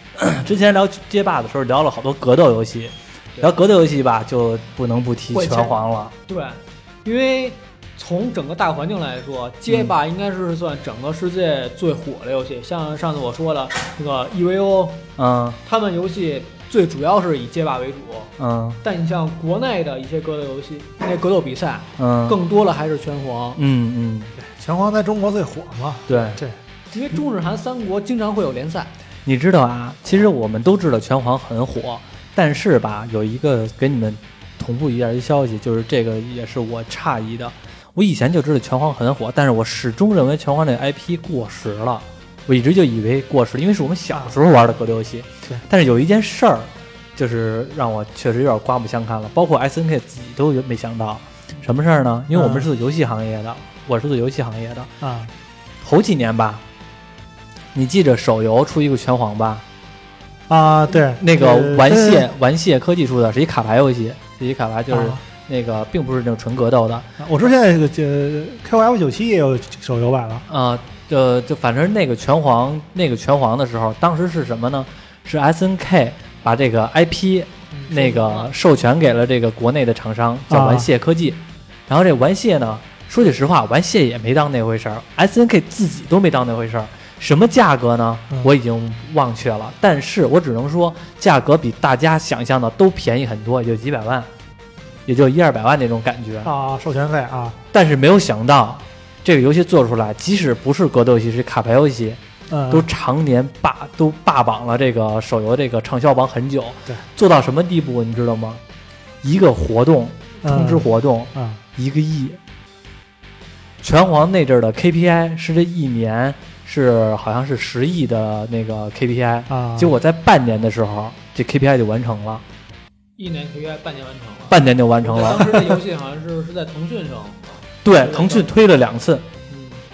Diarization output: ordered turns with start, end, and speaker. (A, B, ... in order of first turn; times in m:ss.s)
0:00.2-0:06.1 A
0:05.3-0:15.0 B
0:15.2-0:15.6 A
0:15.6-0:23.6 B
0:18.4-0:18.8 A
0:22.0-0:22.4 A
0:23.6-0:24.3 A
0:24.4-0:26.6 C
0:26.1-0:26.4 A
0:26.9-0:28.9 B
0:29.2-0:54.9 A
0:44.1-0:44.4 C
0:52.3-0:52.7 C
0:55.0-0:55.3 C
0:55.8-0:56.6 A
0:57.7-0:59.6 A
1:00.5-1:02.3 C
1:01.2-1:07.1 A
1:04.9-1:05.2 C
1:07.2-1:10.4 C
1:10.5-1:34.3 A
1:17.7-1:18.5 B
1:20.5-1:20.9 C
1:35.0-1:36.5 A
1:36.4-1:37.6 C
1:37.7-1:48.6 A
1:42.5-1:42.9 C
1:49.2-1:52.4 A
1:50.4-1:51.6 C
1:53.8-2:02.4 A
1:59.5-2:00.0 C
2:03.2-2:08.5 B
2:04.5-2:05.8 A
2:07.8-2:09.2 A
2:09.5-2:09.8 B